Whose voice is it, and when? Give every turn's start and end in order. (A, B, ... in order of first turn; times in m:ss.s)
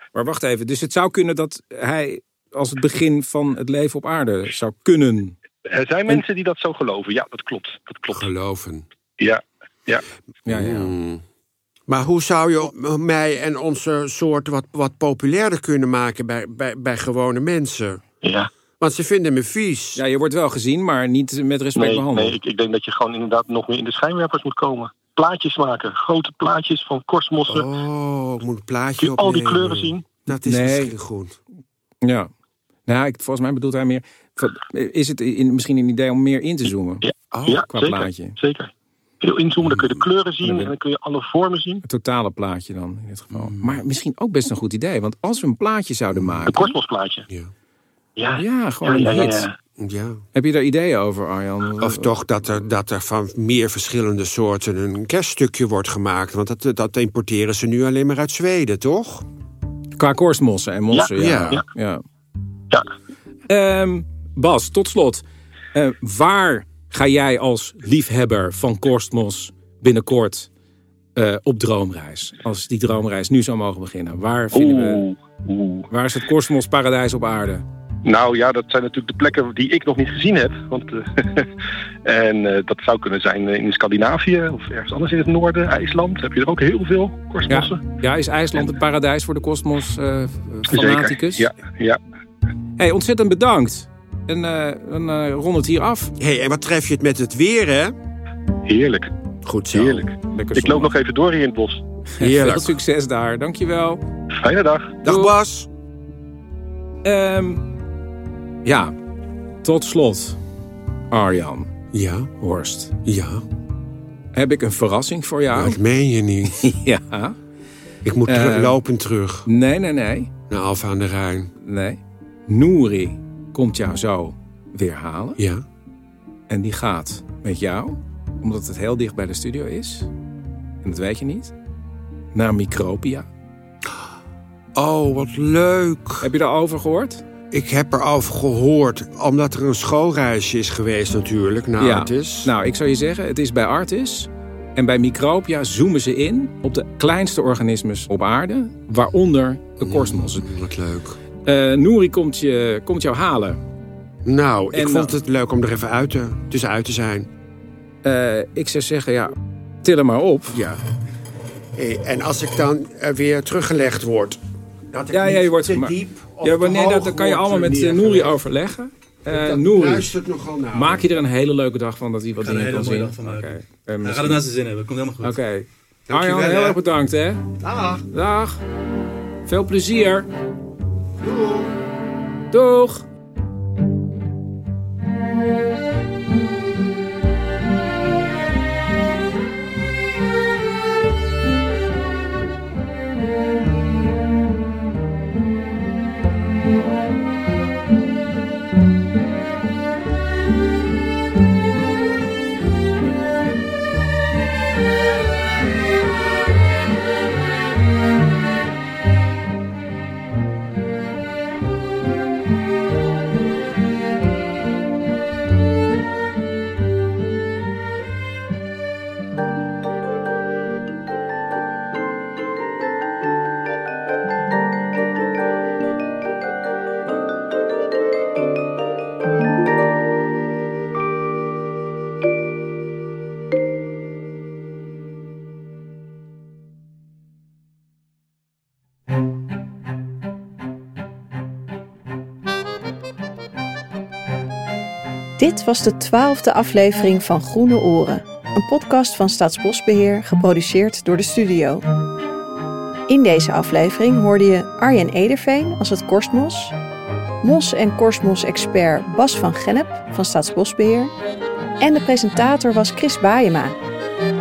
0:00.1-0:05.4 A
0:05.6-0:08.3 B
0:08.1-0:08.9 C
0:09.2-0:10.0 B
0:10.4-0:10.9 A
0:10.5-0:11.2 C
0:11.9-0:18.0 C
0:18.2-0:18.5 B
0:18.8-0:20.0 C
0:20.0-0:22.4 A
0:21.8-0:27.6 B
0:27.5-0:31.4 C
0:29.0-0:30.0 B
0:30.4-0:30.9 A
0:32.0-0:32.3 A
0:32.9-0:37.0 A
0:37.0-0:41.8 B
0:37.3-0:37.6 C
0:37.6-0:38.4 A
0:39.6-0:40.7 C
0:41.8-0:46.7 A
0:43.3-0:43.8 C
0:46.1-0:46.5 C
0:46.5-0:47.2 B
0:48.2-0:49.5 B
0:48.4-0:49.5 A
0:49.8-0:50.2 C
0:50.3-0:52.1 A
0:51.8-0:59.2 C
1:00.0-1:02.0 A
1:00.9-1:01.6 B
1:01.2-1:01.6 C
1:03.5-1:10.5 A
1:11.2-1:15.0 A
1:14.5-1:15.9 B
1:15.9-1:17.6 A
1:18.0-1:21.5 B
1:22.0-1:27.8 B
1:27.5-1:31.5 A
1:30.7-1:32.0 B
1:32.8-1:36.1 A
1:36.2-1:37.9 C
1:38.6-1:39.1 B
1:39.4-1:40.1 C
1:39.7-1:41.8 B
1:40.3-1:40.9 A
1:42.1-1:44.0 A
1:42.2-1:42.8 C
1:44.3-1:45.0 B
1:45.0-1:45.7 C
1:45.0-1:45.3 A
1:47.0-1:47.6 A
1:48.6-1:48.9 A
1:49.6-1:50.4 A
1:51.1-1:51.7 A
1:51.9-1:52.3 C
1:52.4-1:53.0 A
1:53.0-1:53.4 C
1:54.3-1:55.8 A
1:55.5-1:56.7 C
1:56.4-1:57.4 A
1:58.0-1:59.5 C
1:58.2-1:58.8 A
1:59.4-2:00.3 A
2:00.5-2:01.5 C
2:01.6-2:05.4 A
2:05.4-2:05.6 C
2:06.5-2:10.1 A
2:10.8-2:11.5 A
2:12.3-2:13.3 A
2:14.7-2:16.3 C
2:16.2-2:17.2 A
2:17.5-2:22.5 C
2:21.8-2:30.5 A
2:29.8-2:31.2 C
2:31.4-2:33.6 A
2:34.2-2:37.3 C
2:34.7-2:35.1 A
2:38.0-2:40.6 A
2:40.5-2:40.8 C
2:41.7-2:44.4 C
2:44.9-2:48.4 C
2:45.1-2:50.1 A
2:49.3-2:51.1 C
2:50.7-2:54.4 A
2:52.4-2:55.4 D
2:55.2-2:57.5 A
2:56.1-2:56.8 C
2:57.6-2:58.0 C
2:58.1-2:58.6 A
2:59.4-3:00.3 A
3:01.2-3:01.7 C
3:02.5-3:03.0 A
4:05.4-4:11.8 E
4:13.1-4:16.7 E
4:17.4-4:21.1 E
4:21.8-4:23.8 E